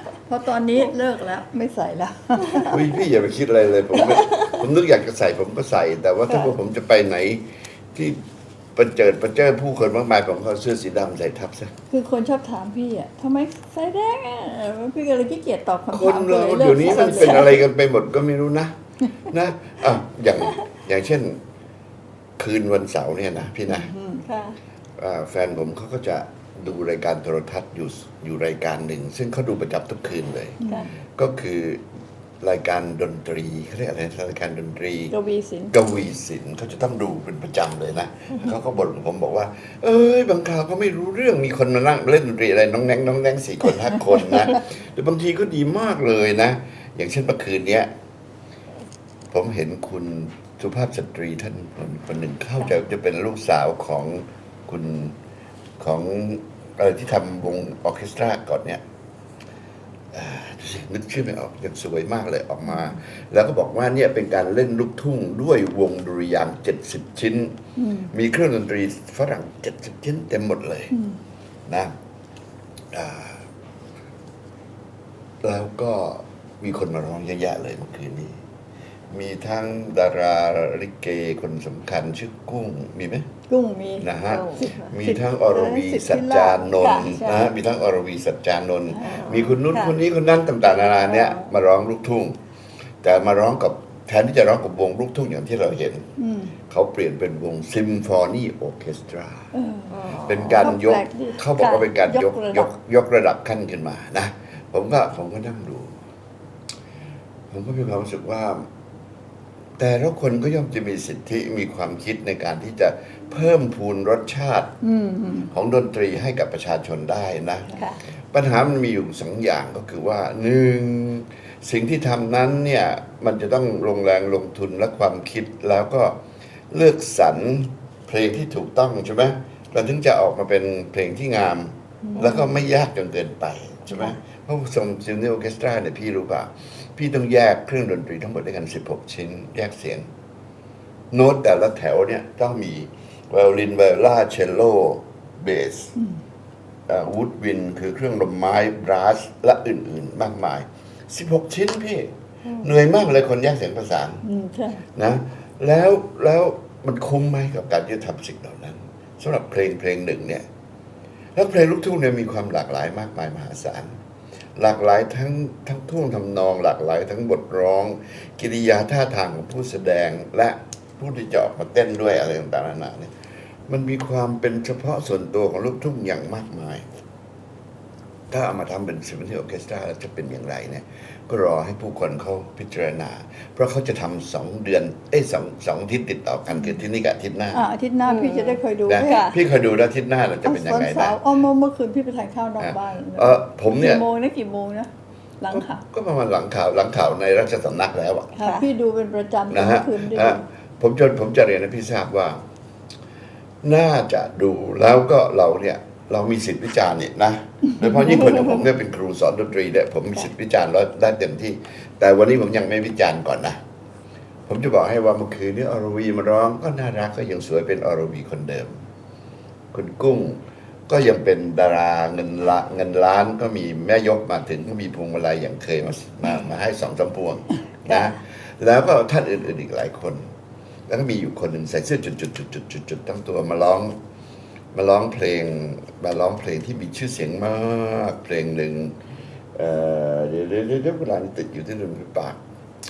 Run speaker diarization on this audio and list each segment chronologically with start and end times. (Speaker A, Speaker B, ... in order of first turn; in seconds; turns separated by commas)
Speaker A: 0.2-2.8, Speaker B: 2.6-8.2, Speaker C: 3.9-4.6, Speaker B: 8.8-11.7, Speaker A: 11.9-17.5, Speaker B: 15.9-18.7, Speaker C: 16.8-17.6, Speaker B: 19.3-21.4, Speaker B: 22.4-23.9, Speaker A: 23.7-24.2, Speaker C: 24.2-24.6, Speaker B: 25.0-30.6, Speaker A: 30.6-30.9, Speaker B: 31.2-31.8, Speaker B: 32.4-35.1, Speaker A: 35.1-35.7, Speaker B: 35.7-47.9, Speaker B: 49.3-55.1, Speaker B: 55.8-58.8, Speaker B: 60.1-67.6, Speaker A: 67.8-68.1, Speaker B: 68.1-70.9, Speaker A: 70.9-71.2, Speaker B: 71.7-71.9, Speaker B: 72.9-73.4, Speaker B: 75.4-78.4, Speaker B: 79.1-83.2, Speaker A: 83.5-84.1, Speaker B: 84.0-92.3, Speaker C: 84.3-84.7, Speaker A: 84.6-87.0, Speaker C: 86.8-87.5, Speaker C: 89.0-89.9, Speaker A: 90.8-91.5, Speaker B: 93.0-96.0, Speaker A: 96.2-96.5, Speaker B: 96.7-99.5, Speaker A: 99.5-100.0, Speaker C: 99.9-100.7, Speaker B: 100.2-106.0, Speaker A: 100.6-102.7, Speaker B: 107.5-108.7, Speaker B: 109.8-114.7, Speaker A: 114.8-115.5, Speaker B: 115.5-117.7, Speaker B: 118.3-126.2, Speaker B: 126.7-140.0, Speaker A: 132.0-132.3, Speaker C: 132.2-132.5, Speaker B: 141.1-145.9, Speaker B: 146.9-154.2, Speaker A: 154.2-154.8, Speaker B: 154.9-160.4, Speaker B: 161.3-163.9, Speaker B: 164.6-173.1, Speaker B: 173.7-176.8, Speaker B: 178.3-187.6, Speaker A: 187.5-189.3, Speaker C: 188.1-189.4, Speaker B: 188.9-191.2, Speaker A: 190.4-194.9, Speaker B: 192.6-194.0, Speaker A: 195.4-195.8, Speaker B: 195.5-198.3, Speaker A: 198.4-200.4, Speaker B: 199.5-202.4, Speaker B: 203.6-213.6, Speaker C: 208.2-208.6, Speaker B: 214.5-218.7, Speaker B: 219.7-230.3, Speaker C: 227.9-228.1, Speaker B: 230.9-233.9, Speaker B: 234.7-238.9, Speaker B: 239.6-242.4